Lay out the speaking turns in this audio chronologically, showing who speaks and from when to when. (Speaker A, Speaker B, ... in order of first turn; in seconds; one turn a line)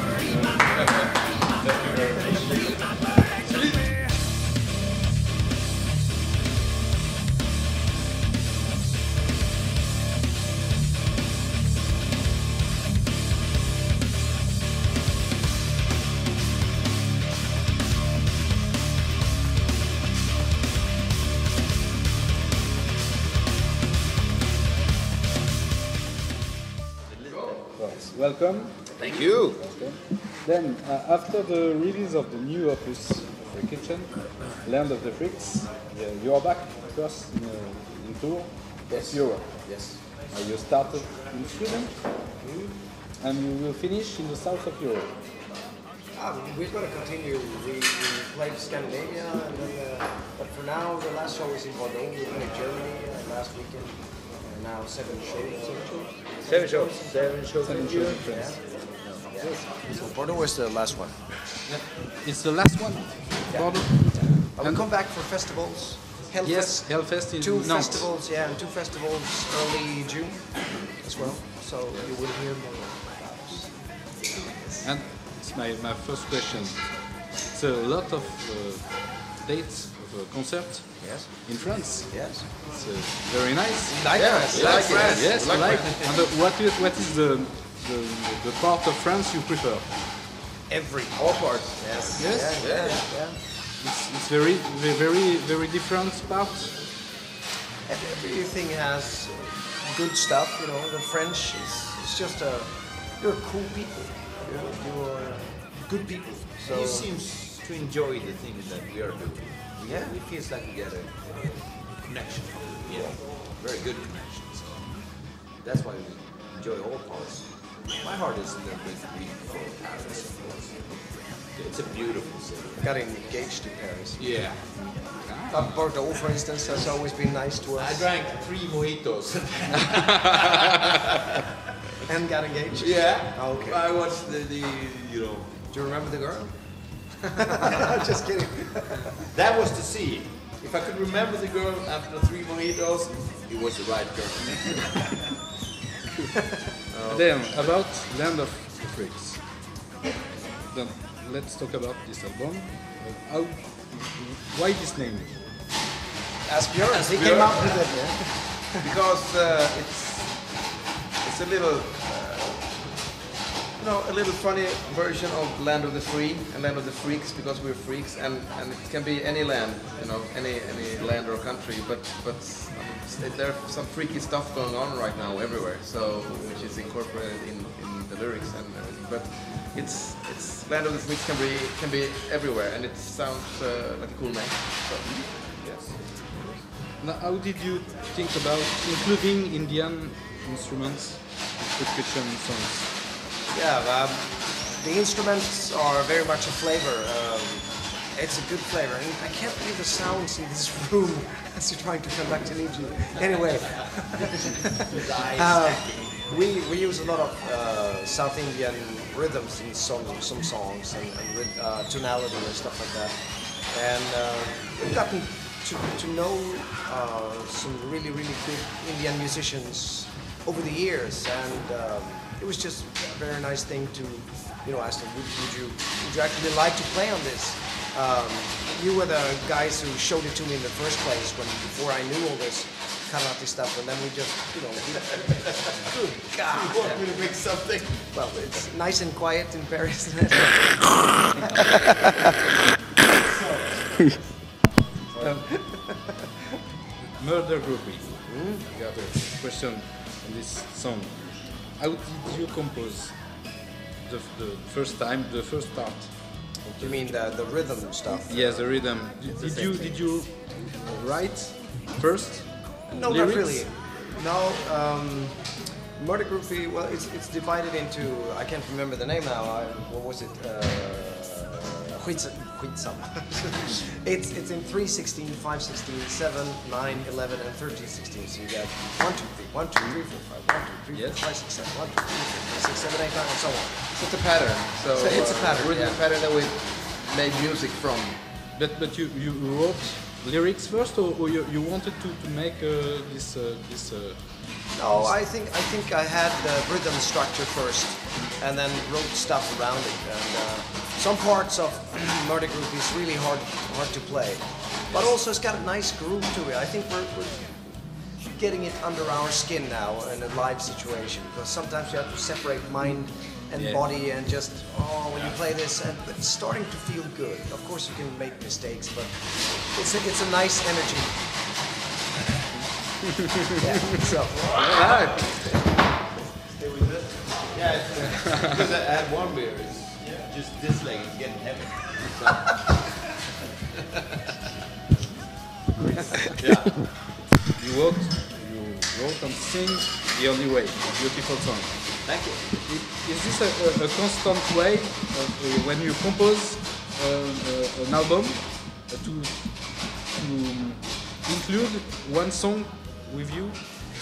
Speaker A: 1.6-2.5
Speaker A: 27.8-42.1
Speaker B: 28.9-29.6
Speaker B: 38.9-40.0
Speaker C: 42.4-42.8
Speaker A: 43.2-45.1
Speaker C: 46.1-57.3
Speaker B: 56.4-58.2
Speaker A: 57.6-58.6
Speaker C: 58.2-61.4
Speaker B: 58.9-59.3
Speaker A: 59.4-59.7
Speaker A: 62.2-64.9
Speaker C: 63.5-74.9
Speaker A: 66.4-68.1
Speaker A: 74.8-89.9
Speaker C: 81.0-82.5
Speaker C: 83.9-85.9
Speaker B: 84.2-86.3
Speaker D: 84.2-85.3
Speaker C: 90.7-93.4
Speaker B: 92.2-93.1
Speaker A: 93.2-96.9
Speaker C: 97.8-107.1
Speaker B: 106.6-122.9
Speaker C: 109.8-110.2
Speaker C: 122.8-124.5
Speaker B: 124.2-125.0
Speaker A: 124.8-125.7
Speaker C: 125.4-128.2
Speaker B: 127.8-131.0
Speaker C: 132.0-133.8
Speaker B: 132.8-135.7
Speaker C: 135.7-139.2
Speaker B: 139.3-145.2
Speaker D: 146.9-147.7
Speaker A: 147.1-149.7
Speaker A: 150.7-155.5
Speaker C: 156.4-158.9
Speaker D: 156.9-163.2
Speaker D: 163.8-185.2
Speaker B: 185.6-185.9
Speaker A: 187.0-192.9
Speaker C: 193.5-237.2
Speaker B: 204.8-206.3
Speaker B: 236.5-238.1
Speaker C: 238.1-241.5
Speaker C: 245.2-245.9
Speaker A: 245.2-245.7
Speaker A: 247.2-263.7
Speaker C: 248.3-248.7
Speaker C: 256.8-260.0
Speaker C: 262.9-284.0
Speaker A: 280.9-281.3
Speaker D: 283.9-288.2
Speaker C: 284.9-286.0
Speaker A: 285.1-285.9
Speaker A: 288.5-295.2
Speaker C: 294.7-321.6
Speaker A: 304.9-305.1
Speaker A: 312.9-313.8
Speaker C: 323.6-325.2
Speaker A: 324.6-325.2
Speaker B: 327.5-333.0
Speaker B: 336.1-337.2
Speaker A: 337.6-353.6
Speaker B: 342.0-342.5